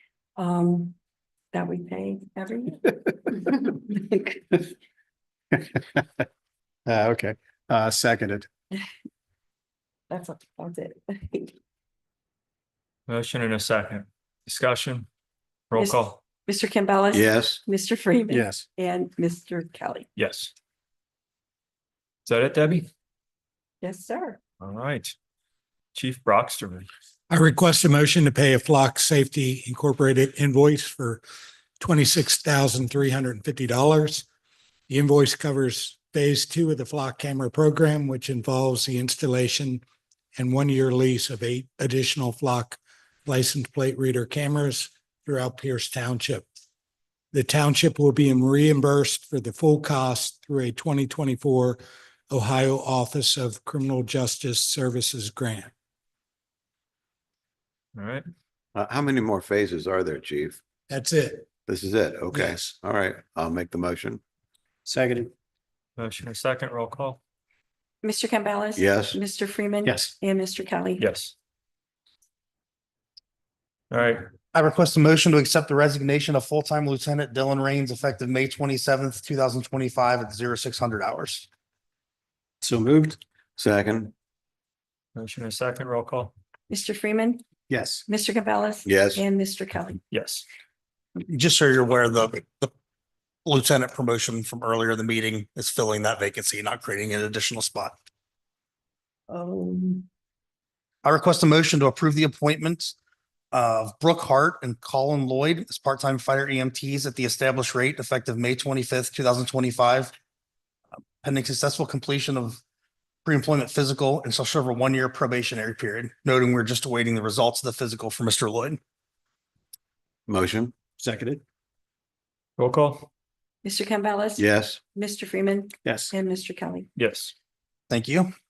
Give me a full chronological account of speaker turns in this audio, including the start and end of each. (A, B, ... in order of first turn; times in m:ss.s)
0:00.4-0:00.9 A
0:01.5-0:02.9 A
0:03.5-0:04.6 A
0:05.5-0:06.0 B
0:06.9-0:08.5 B
0:10.1-0:11.5 A
0:13.1-0:15.1 C
0:15.7-0:16.2 C
0:15.7-0:20.1 A
0:17.1-0:17.6 D
0:18.3-0:18.6 B
0:20.2-0:20.5 C
0:22.2-0:22.9 C
0:23.8-0:24.4 A
0:24.6-0:25.1 C
0:25.9-0:26.9 C
0:27.3-0:31.2 E
0:31.8-0:34.2 E
0:34.9-0:39.8 E
0:40.3-0:46.5 E
0:47.3-0:55.7 E
0:57.9-0:58.2 C
0:58.7-1:00.6 D
1:00.9-1:01.5 E
1:01.7-1:04.2 D
1:04.8-1:05.3 B
1:06.0-1:07.2 C
1:08.0-1:11.0 A
1:08.8-1:09.2 D
1:09.8-1:10.1 B
1:11.0-1:11.3 C
1:13.9-1:14.3 C
1:14.5-1:21.4 F
1:22.6-1:23.2 B
1:23.6-1:24.1 D
1:25.1-1:26.3 C
1:26.7-1:27.4 A
1:27.7-1:28.0 B
1:28.1-1:30.0 A
1:28.8-1:29.2 D
1:30.1-1:30.4 C
1:31.2-1:32.7 F
1:33.4-1:38.0 F
1:39.5-1:40.0 F
1:41.0-1:42.9 F
1:43.5-1:50.1 F
1:51.2-1:52.6 F
1:53.2-1:58.8 F
2:00.3-2:00.8 D
2:01.0-2:01.4 B
2:02.6-2:03.1 C
2:03.6-2:06.9 A
2:04.4-2:04.8 D
2:05.8-2:06.1 B
2:07.0-2:07.3 C
2:07.9-2:08.3 F